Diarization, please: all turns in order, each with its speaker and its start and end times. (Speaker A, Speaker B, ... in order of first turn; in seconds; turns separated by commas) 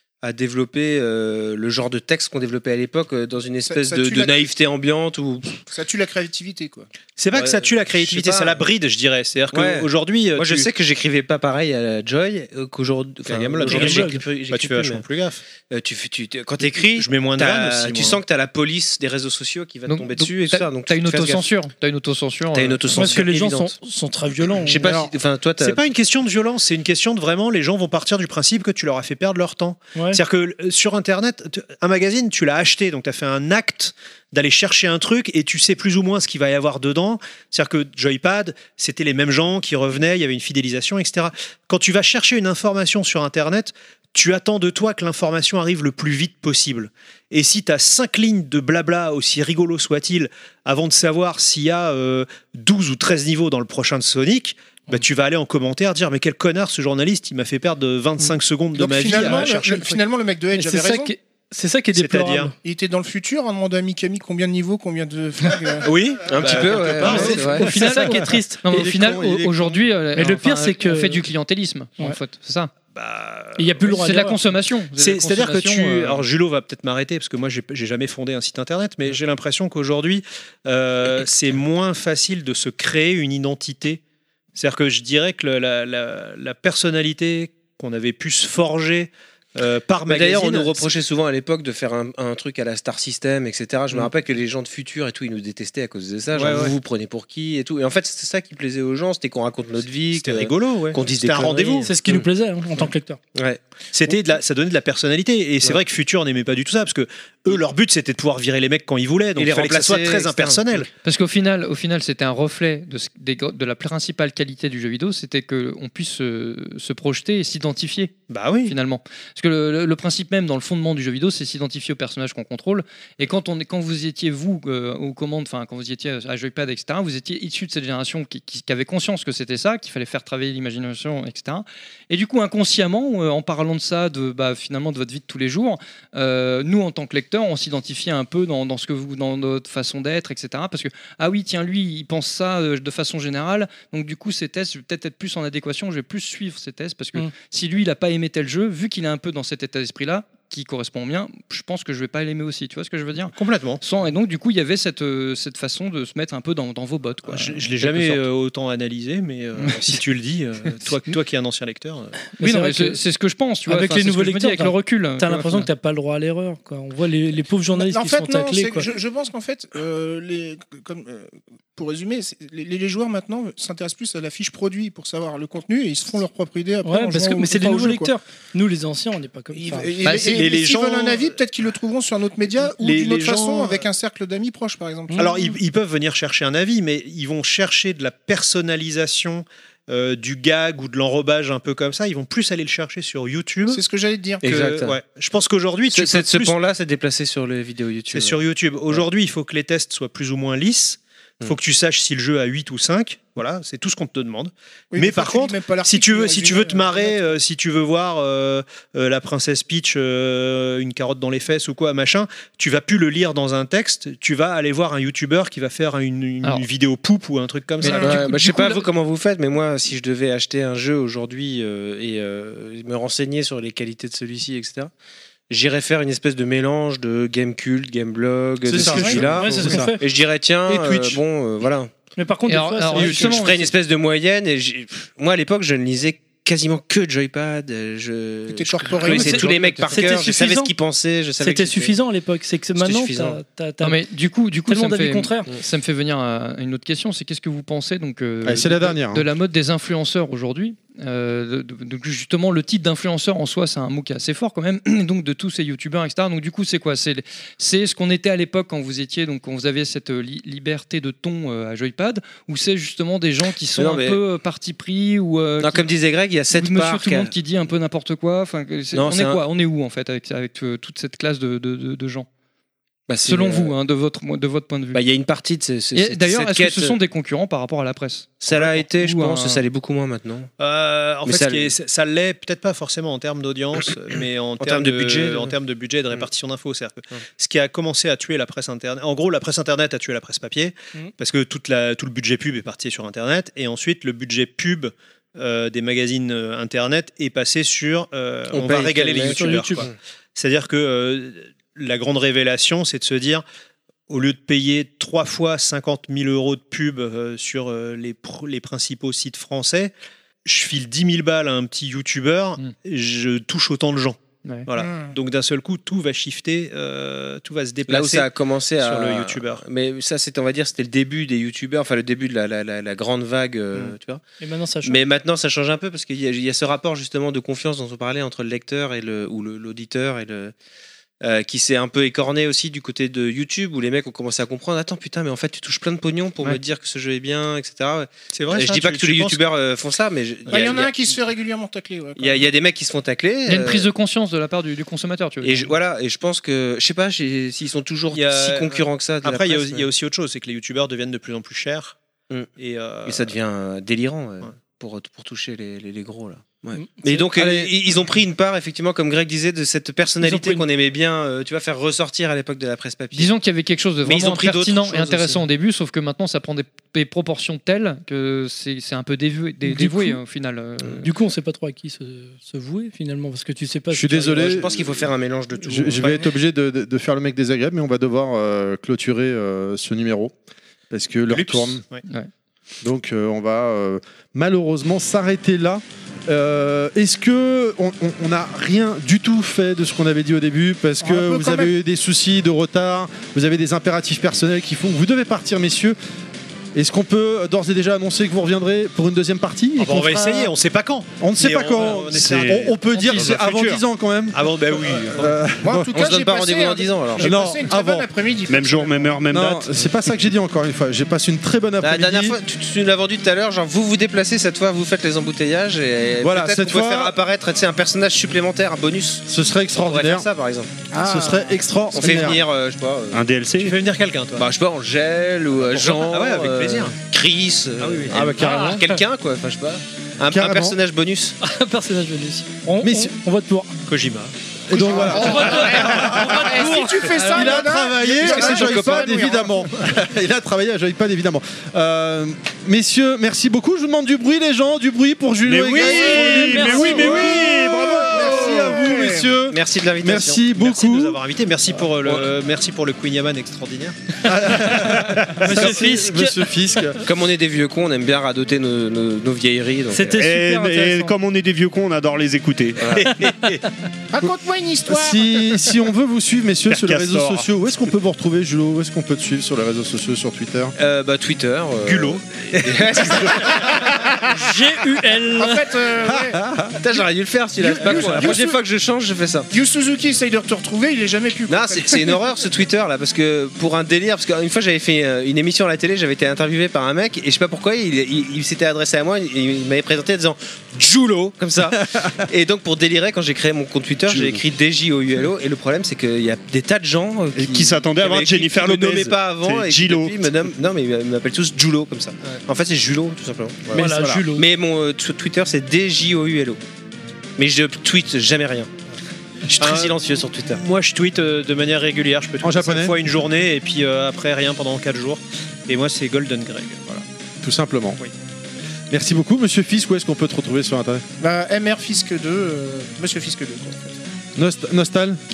Speaker A: 0.2-5.6, Speaker B: 3.6-4.5, Speaker B: 5.7-6.9, Speaker C: 7.2-10.7, Speaker A: 7.3-8.7, Speaker A: 9.5-15.1, Speaker C: 13.3-15.4, Speaker D: 13.7-14.2, Speaker A: 15.7-21.5, Speaker C: 16.6-18.2, Speaker E: 19.9-23.2, Speaker A: 22.5-23.8, Speaker D: 22.9-25.1, Speaker A: 24.6-25.8, Speaker C: 25.6-59.6, Speaker B: 58.8-61.1, Speaker D: 59.1-60.0, Speaker D: 60.5-62.5, Speaker C: 61.9-62.5, Speaker B: 62.6-65.9, Speaker C: 65.8-67.7, Speaker A: 66.3-67.8, Speaker F: 67.0-69.9, Speaker D: 67.0-68.9, Speaker E: 67.6-72.7, Speaker D: 70.2-71.2, Speaker C: 72.9-73.9, Speaker D: 73.6-74.4, Speaker E: 73.9-76.2, Speaker C: 75.0-84.0, Speaker C: 84.5-90.9, Speaker A: 90.1-102.3, Speaker C: 96.3-96.8, Speaker C: 100.1-101.9, Speaker D: 101.9-103.2, Speaker A: 103.3-103.6, Speaker C: 103.9-110.9, Speaker A: 109.4-110.9, Speaker E: 111.0-118.1, Speaker C: 118.3-118.8, Speaker E: 118.7-158.2, Speaker C: 153.4-153.8, Speaker C: 157.3-162.2, Speaker E: 159.6-160.0, Speaker D: 162.4-163.0, Speaker E: 162.4-165.7, Speaker D: 163.7-168.9, Speaker B: 167.7-178.1, Speaker D: 176.8-179.9, Speaker B: 179.5-185.4, Speaker E: 180.1-180.5, Speaker C: 180.1-181.3, Speaker C: 182.7-183.9, Speaker D: 185.1-185.3, Speaker C: 185.2-193.8, Speaker B: 193.7-194.4, Speaker A: 194.4-195.0, Speaker C: 194.4-196.6, Speaker A: 195.9-199.1, Speaker C: 198.1-218.3, Speaker B: 204.9-207.4, Speaker E: 217.8-218.8, Speaker A: 217.8-224.9, Speaker A: 225.5-231.9, Speaker F: 228.7-230.0, Speaker D: 228.7-230.0, Speaker F: 230.7-231.2, Speaker D: 232.2-233.5, Speaker E: 232.5-233.7, Speaker A: 232.9-242.0, Speaker B: 238.5-240.1, Speaker D: 239.0-240.7, Speaker D: 241.4-244.0, Speaker A: 242.8-243.4, Speaker E: 243.8-265.9, Speaker D: 244.7-245.5, Speaker F: 248.4-249.3, Speaker A: 263.7-264.2, Speaker A: 265.6-267.3, Speaker E: 266.5-272.3, Speaker A: 268.9-269.4, Speaker A: 273.1-273.8, Speaker E: 273.2-275.0, Speaker A: 274.9-277.0, Speaker E: 275.9-279.6, Speaker A: 278.4-280.5, Speaker C: 278.5-278.8, Speaker C: 280.6-303.4, Speaker A: 281.2-281.7, Speaker A: 284.6-285.5, Speaker A: 298.5-299.9, Speaker D: 299.4-299.9, Speaker C: 304.1-309.9, Speaker C: 310.4-319.6, Speaker B: 314.8-315.1, Speaker A: 317.9-324.2, Speaker D: 324.4-325.0, Speaker A: 324.8-330.5, Speaker A: 331.2-341.0, Speaker C: 338.3-339.5, Speaker C: 340.5-340.9, Speaker B: 340.5-342.5, Speaker A: 342.2-343.9, Speaker E: 343.5-345.7, Speaker A: 345.4-349.9, Speaker C: 348.1-352.0, Speaker C: 352.6-353.4, Speaker A: 353.1-363.3, Speaker D: 356.8-357.2, Speaker F: 357.3-357.7, Speaker D: 360.2-360.7, Speaker E: 363.1-371.1, Speaker A: 364.0-365.4, Speaker D: 369.6-370.2, Speaker D: 371.0-374.6, Speaker F: 373.9-374.9, Speaker A: 374.3-376.3, Speaker F: 375.6-380.3, Speaker F: 380.9-381.8, Speaker C: 381.3-382.0, Speaker F: 382.8-396.0, Speaker B: 391.0-391.7, Speaker F: 396.8-400.4, Speaker C: 399.8-403.8, Speaker F: 401.2-404.4, Speaker G: 402.1-403.7, Speaker C: 404.3-405.4, Speaker F: 405.1-405.9, Speaker B: 405.6-409.2, Speaker A: 405.9-407.4, Speaker F: 407.2-408.1, Speaker G: 408.5-409.9, Speaker F: 409.3-412.4, Speaker A: 411.8-419.2, Speaker F: 416.2-417.2, Speaker F: 419.3-420.3, Speaker A: 419.8-420.8, Speaker B: 420.9-421.6, Speaker F: 420.9-422.4, Speaker A: 421.9-423.2, Speaker G: 423.1-423.8, Speaker C: 423.6-424.5, Speaker A: 424.4-431.4, Speaker C: 425.6-427.0, Speaker C: 427.8-428.3, Speaker F: 428.1-428.9, Speaker F: 430.3-430.8, Speaker D: 431.4-433.7, Speaker F: 432.8-433.1, Speaker C: 433.9-434.3, Speaker F: 434.7-451.2, Speaker B: 434.8-439.7, Speaker D: 434.9-437.1, Speaker E: 437.2-437.7, Speaker A: 438.2-439.1, Speaker G: 445.4-448.2, Speaker B: 445.8-449.3, Speaker D: 445.8-447.1, Speaker A: 449.5-450.4, Speaker C: 450.5-455.5, Speaker F: 454.2-457.0, Speaker D: 455.4-456.4, Speaker A: 457.0-460.3, Speaker D: 459.9-461.1, Speaker G: 460.2-463.0, Speaker A: 462.8-463.1, Speaker C: 463.2-463.6, Speaker B: 464.1-465.7, Speaker F: 464.9-470.7, Speaker G: 466.7-467.5, Speaker A: 470.8-473.8, Speaker C: 471.8-473.9, Speaker D: 474.4-475.7, Speaker B: 475.4-476.4, Speaker F: 476.1-476.7, Speaker A: 476.8-479.5, Speaker B: 477.6-478.6, Speaker D: 477.8-478.5, Speaker B: 479.5-482.3, Speaker A: 481.5-506.6, Speaker G: 494.1-494.4, Speaker G: 497.4-500.2, Speaker F: 503.7-504.2, Speaker D: 503.7-504.5, Speaker A: 507.4-508.7, Speaker A: 509.5-510.6, Speaker C: 509.6-517.1, Speaker F: 512.4-513.0, Speaker F: 517.4-518.0, Speaker F: 518.9-521.1, Speaker B: 521.2-524.0, Speaker F: 524.4-525.2